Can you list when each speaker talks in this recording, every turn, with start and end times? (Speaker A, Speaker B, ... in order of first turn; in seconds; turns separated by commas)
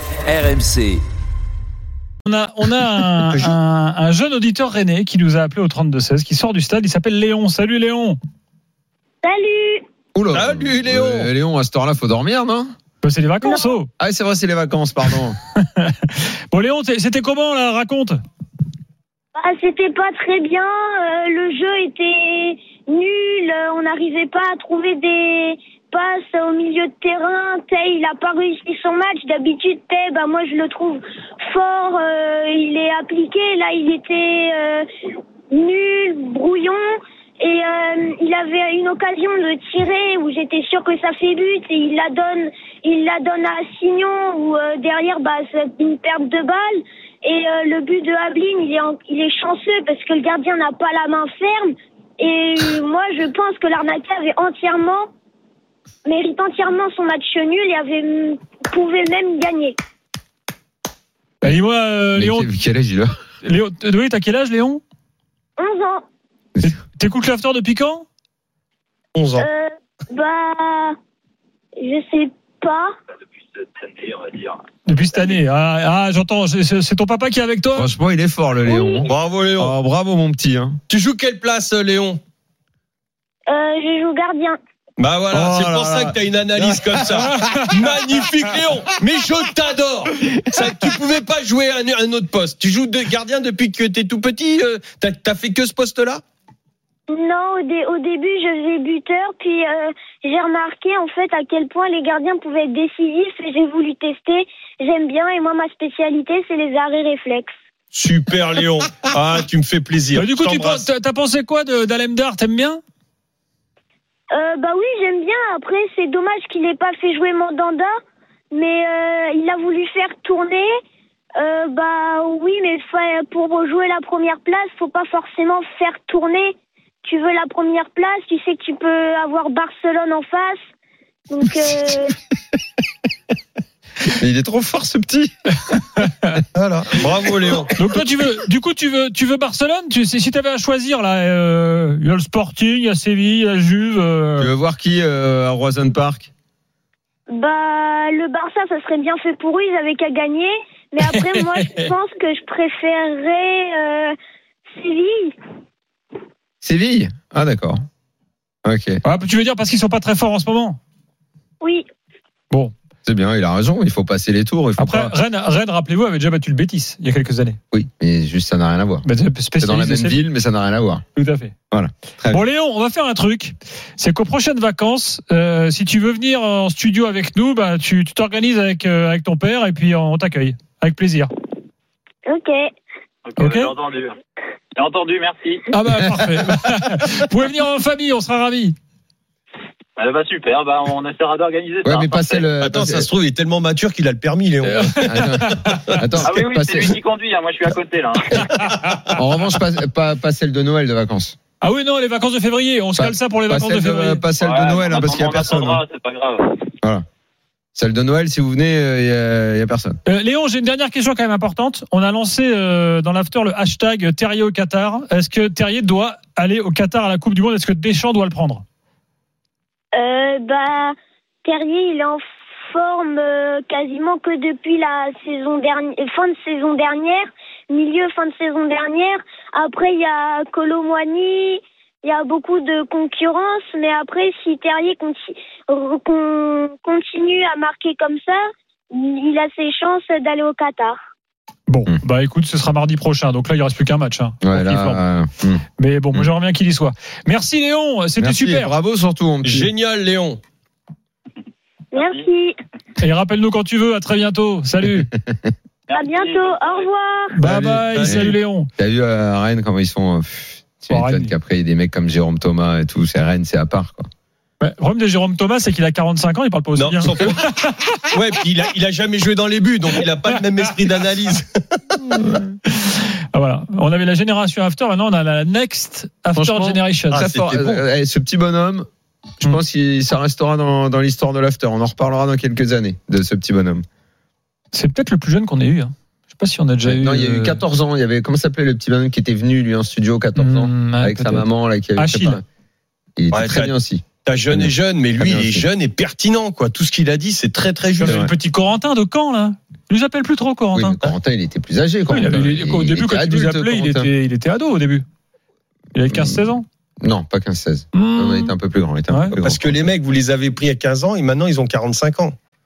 Speaker A: 2.2-8.2, Speaker B: 9.2-9.8, Speaker C: 10.2-12.7, Speaker D: 10.3-11.3, Speaker A: 13.0-13.9, Speaker B: 13.4-13.7, Speaker C: 14.0-15.4, Speaker A: 15.6-18.2, Speaker B: 19.4-34.9, Speaker B: 35.5-36.8, Speaker B: 37.4-55.1, Speaker B: 56.0-59.7, Speaker A: 61.4-62.5, Speaker C: 62.1-63.1, Speaker A: 63.4-64.8, Speaker B: 65.6-66.0, Speaker A: 66.6-68.0, Speaker D: 69.1-69.5, Speaker B: 69.4-71.0, Speaker B: 71.8-72.9, Speaker E: 74.0-74.5, Speaker A: 74.9-77.9, Speaker C: 77.7-80.8, Speaker B: 78.6-79.1, Speaker D: 79.1-79.7, Speaker D: 80.9-82.2, Speaker B: 83.5-84.6, Speaker D: 85.0-96.2, Speaker C: 85.3-87.0, Speaker A: 87.3-87.7, Speaker B: 97.1-107.5, Speaker D: 107.9-110.9, Speaker A: 110.2-112.8, Speaker B: 114.3-117.9, Speaker B: 118.5-120.7, Speaker B: 121.4-130.6, Speaker B: 131.3-132.2, Speaker C: 134.0-135.8, Speaker D: 136.5-137.7, Speaker A: 137.8-144.5, Speaker C: 144.4-146.3, Speaker B: 147.3-154.1, Speaker B: 154.8-155.3, Speaker C: 156.6-157.8, Speaker C: 158.7-159.0, Speaker A: 159.0-160.8, Speaker C: 163.1-165.2, Speaker A: 164.8-167.6, Speaker C: 167.7-169.1, Speaker A: 169.0-170.2, Speaker C: 169.6-171.0, Speaker A: 171.2-171.5, Speaker C: 171.7-172.4, Speaker A: 172.3-181.3, Speaker B: 182.3-182.6, Speaker E: 183.3-184.2, Speaker A: 183.4-183.7, Speaker E: 184.8-185.7, Speaker A: 185.7-188.8, Speaker E: 190.0-192.5, Speaker C: 191.8-193.1, Speaker D: 192.6-196.2, Speaker A: 194.9-195.8, Speaker C: 195.0-197.0, Speaker E: 196.2-198.7, Speaker C: 199.1-201.4, Speaker A: 201.6-204.2, Speaker C: 203.0-205.8, Speaker E: 204.4-206.6, Speaker C: 207.8-210.0, Speaker A: 210.1-218.6, Speaker B: 219.9-238.4, Speaker B: 238.9-241.0, Speaker A: 241.7-245.0, Speaker C: 244.4-246.3, Speaker A: 245.8-248.7, Speaker C: 248.2-249.7, Speaker D: 249.4-250.4, Speaker B: 251.9-252.6, Speaker A: 253.0-255.1, Speaker E: 255.9-256.8, Speaker B: 255.9-257.4, Speaker A: 257.4-258.7, Speaker C: 257.4-264.1, Speaker D: 257.9-258.4, Speaker A: 260.9-261.3, Speaker A: 264.6-267.9, Speaker D: 266.8-267.5, Speaker D: 268.1-272.0, Speaker A: 272.2-277.4, Speaker C: 276.4-278.9, Speaker D: 277.1-277.7, Speaker C: 279.4-283.8, Speaker A: 284.7-287.6, Speaker C: 286.8-292.4, Speaker A: 290.4-292.4, Speaker C: 293.2-295.7, Speaker D: 293.3-298.3, Speaker A: 298.0-301.1, Speaker C: 300.7-304.1, Speaker A: 302.1-305.1, Speaker A: 305.9-306.6, Speaker C: 306.1-309.7, Speaker A: 307.9-308.5, Speaker A: 309.1-309.4, Speaker D: 309.4-312.4